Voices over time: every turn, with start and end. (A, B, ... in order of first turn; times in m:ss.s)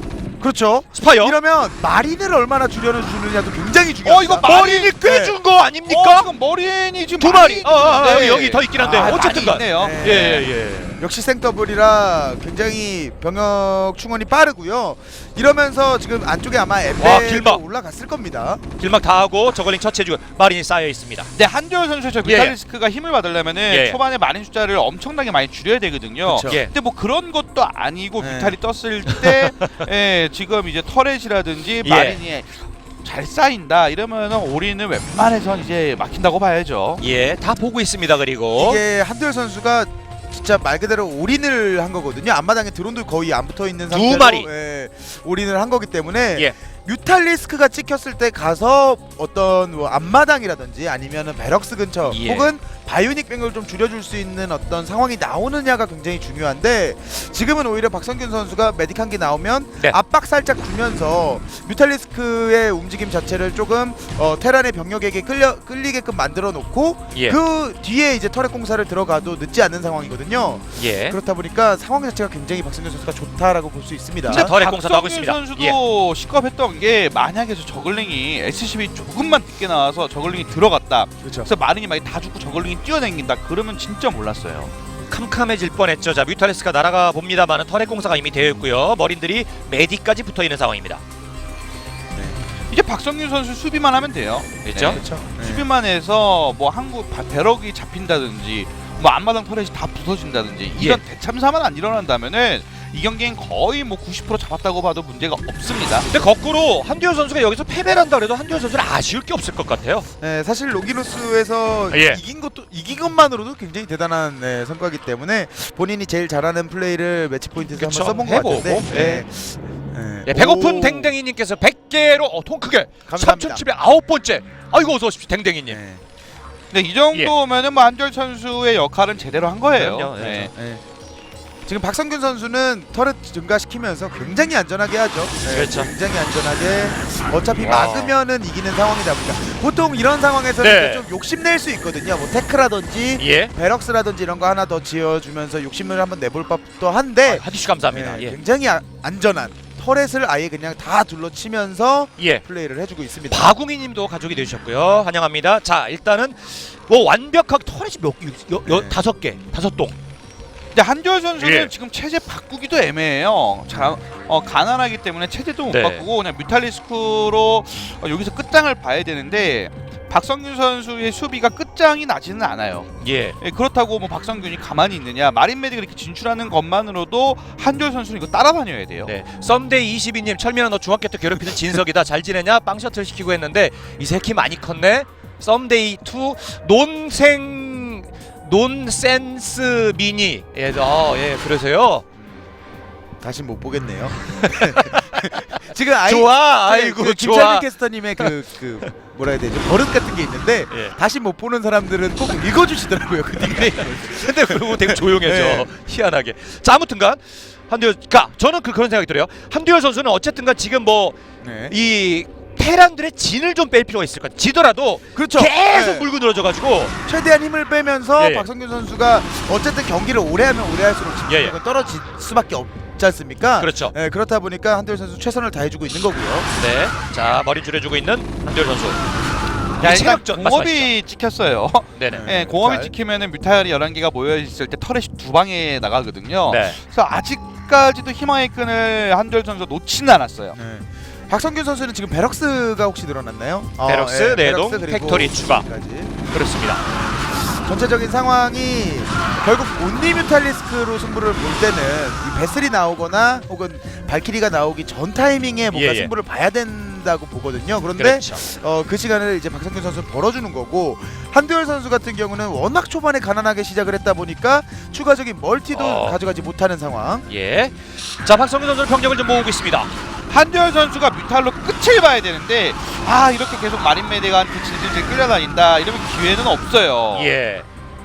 0:00.4-0:04.5 A
0:00.9-0:01.4 B
0:04.0-0:05.0 C
0:04.4-0:06.3 B
0:05.0-0:05.4 A
0:05.8-0:10.4 C
0:07.2-0:11.0 B
0:08.8-0:10.4 A
0:11.0-0:18.6 A
0:17.0-0:17.6 B
0:18.8-0:21.3 B
0:21.3-0:37.0 C
0:22.2-0:22.6 B
0:23.7-0:24.0 B
0:26.2-0:26.6 A
0:26.4-0:26.7 B
0:28.2-0:28.6 A
0:31.8-0:32.2 B
0:37.0-0:38.8 B
0:38.5-1:14.5 A
0:43.9-0:44.5 B
0:52.0-0:52.5 B
1:07.1-1:07.4 B
1:10.8-1:11.2 B
1:14.3-1:15.8 B
1:14.3-1:24.7 C
1:21.2-1:21.5 A
1:25.1-1:31.0 B
1:32.1-1:32.4 A
1:32.7-1:46.1 C
1:34.6-1:35.0 B
1:34.9-1:35.6 A
1:46.1-1:50.1 B
1:50.2-2:01.2 A
1:51.9-1:52.2 B
1:57.7-1:59.2 B
2:00.2-2:05.8 B
2:03.1-2:03.6 A
2:05.7-2:06.0 A
2:06.7-2:10.5 C
2:09.7-2:10.5 B
2:10.5-2:10.8 A
2:11.6-2:33.5 A
2:15.5-2:15.9 B
2:17.6-2:18.1 B
2:20.6-2:21.0 B
2:23.2-2:23.5 B
2:27.2-2:28.4 B
2:32.2-2:32.4 B
2:33.3-2:40.0 B
2:38.6-2:39.0 A
2:40.7-2:59.1 C
2:41.4-2:41.7 B
2:45.7-2:46.1 B
2:53.0-2:53.4 B
2:59.0-3:12.0 B
3:12.2-3:12.5 A
3:13.2-3:25.7 A
3:14.4-3:18.3 B
3:23.4-3:37.0 B
3:31.4-3:31.8 A
3:35.1-3:36.1 A
3:37.0-3:46.5 A
3:38.2-3:38.5 B
3:41.3-3:41.5 B
3:43.6-3:43.9 B
3:46.5-3:49.0 B
3:49.8-3:50.9 B
3:49.8-4:00.6 C
3:52.0-3:52.3 B
3:52.1-3:52.9 A
3:56.5-3:56.8 B
4:00.5-4:06.2 A
4:03.8-4:05.7 B
4:06.2-4:06.8 B
4:06.8-4:27.3 A
4:15.7-4:16.1 B
4:17.9-4:18.4 B
4:25.7-4:26.2 B
4:27.3-4:29.9 B
4:30.3-4:37.3 C
4:37.1-4:37.7 B